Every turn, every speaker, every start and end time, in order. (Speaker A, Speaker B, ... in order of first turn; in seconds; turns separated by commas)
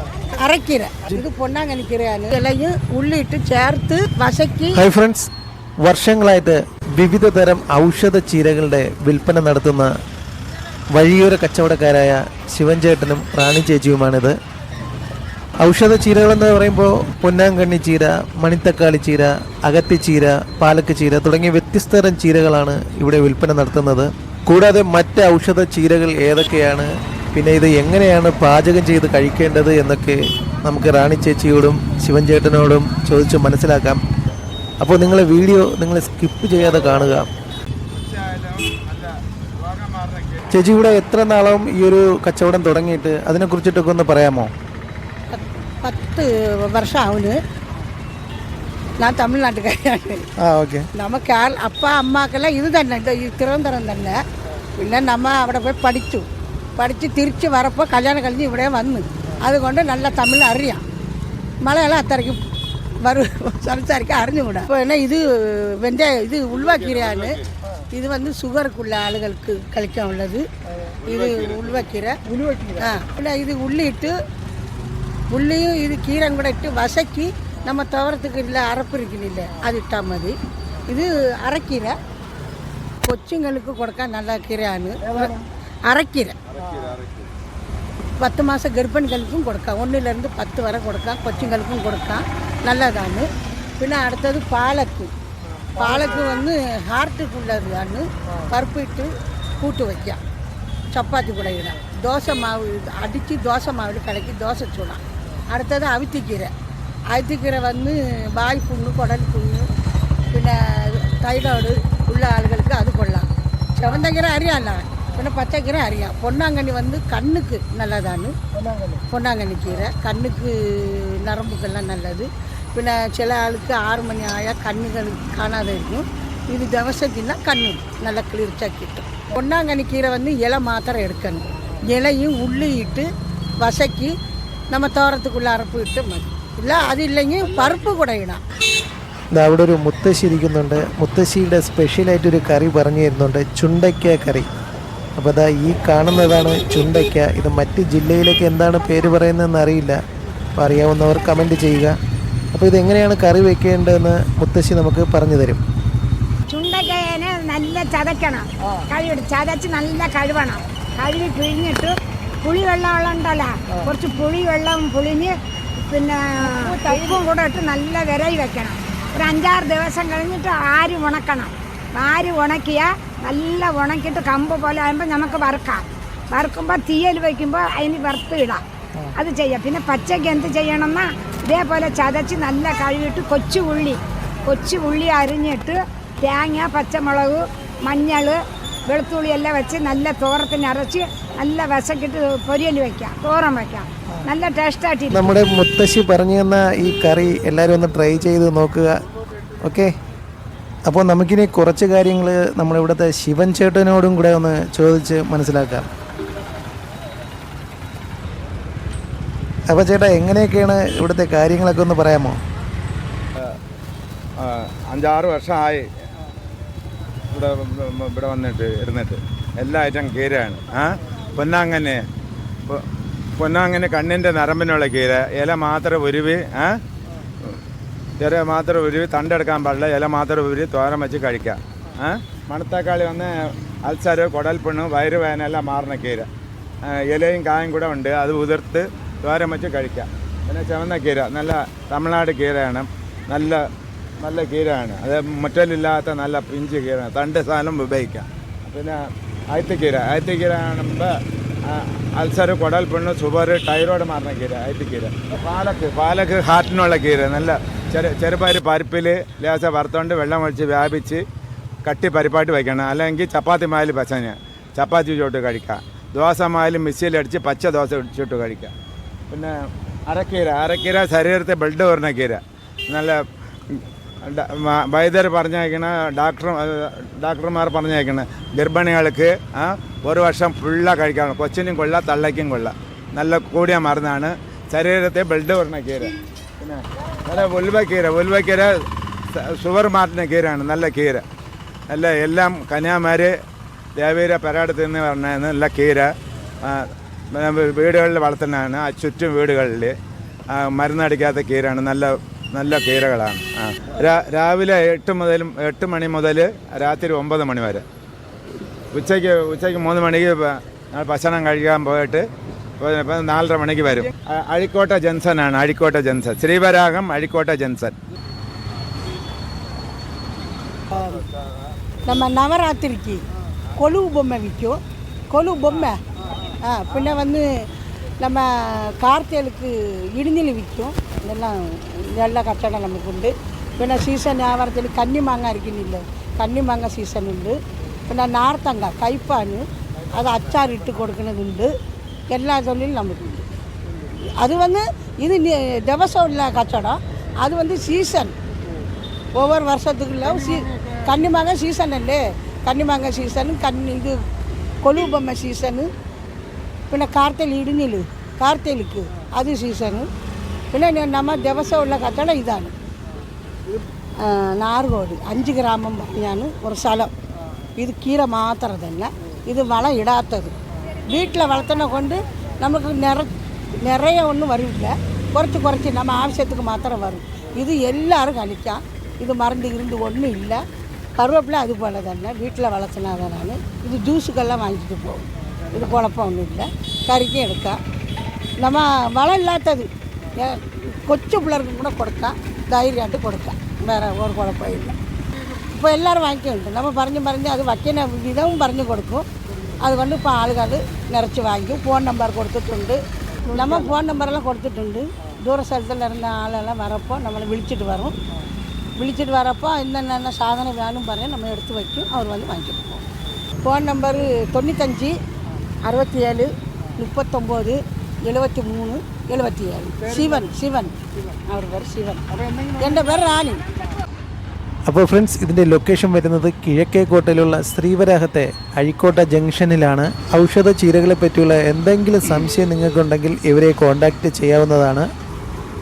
Speaker A: 0.3-4.8, Speaker B: 4.8-5.3, Speaker B: 5.8-9.9, Speaker B: 10.9-14.4, Speaker B: 15.6-34.0, Speaker B: 34.8-37.3, Speaker C: 37.9-40.5, Speaker B: 40.5-44.5, Speaker A: 45.3-47.4, Speaker A: 49.0-50.3, Speaker B: 50.4-50.9, Speaker A: 51.0-54.2, Speaker A: 54.8-60.8, Speaker A: 61.6-62.4, Speaker A: 63.0-67.4, Speaker C: 66.6-67.5, Speaker A: 67.9-70.4, Speaker C: 71.0-71.7, Speaker A: 71.0-72.2, Speaker A: 72.7-74.1, Speaker A: 75.3-80.3, Speaker A: 80.9-82.0, Speaker A: 83.0-85.4, Speaker A: 85.9-86.3, Speaker C: 86.6-87.2, Speaker A: 88.2-93.3, Speaker A: 93.8-95.1, Speaker A: 95.8-100.2, Speaker A: 100.9-106.5, Speaker A: 107.1-109.7, Speaker A: 110.3-118.3, Speaker A: 119.0-133.1, Speaker A: 133.6-134.1, Speaker A: 134.7-138.4, Speaker B: 139.3-144.5, Speaker B: 145.2-150.0, Speaker B: 150.6-152.0, Speaker B: 152.5-155.6, Speaker D: 156.5-178.6, Speaker D: 179.1-195.3, Speaker B: 195.1-199.0, Speaker B: 199.6-199.9, Speaker B: 200.9-205.9, Speaker B: 209.7-212.4, Speaker C: 214.4-215.8, Speaker C: 217.3-222.0, Speaker C: 223.4-226.8, Speaker C: 228.2-236.3, Speaker C: 236.8-243.6, Speaker C: 244.2-261.2, Speaker C: 261.9-268.7, Speaker C: 269.3-269.6, Speaker C: 270.1-288.8, Speaker C: 289.4-291.2, Speaker C: 291.9-293.3, Speaker C: 294.0-296.1, Speaker C: 296.6-299.9, Speaker C: 300.5-307.9, Speaker C: 308.9-312.3, Speaker C: 312.8-317.9, Speaker A: 322.1-323.2, Speaker A: 323.8-324.8, Speaker A: 325.3-327.5, Speaker A: 328.2-341.7, Speaker A: 342.3-343.5, Speaker A: 344.4-348.3, Speaker A: 349.4-354.2, Speaker A: 354.8-355.9, Speaker A: 356.9-360.1, Speaker A: 360.7-362.7, Speaker A: 364.2-367.1, Speaker A: 367.8-370.5, Speaker A: 371.1-373.3, Speaker A: 373.8-380.6, Speaker A: 381.2-387.8, Speaker A: 388.6-395.0, Speaker A: 395.5-399.3, Speaker A: 399.8-408.1, Speaker A: 409.0-413.0, Speaker A: 413.6-415.2, Speaker A: 415.9-421.0, Speaker A: 421.5-423.6, Speaker B: 424.9-435.1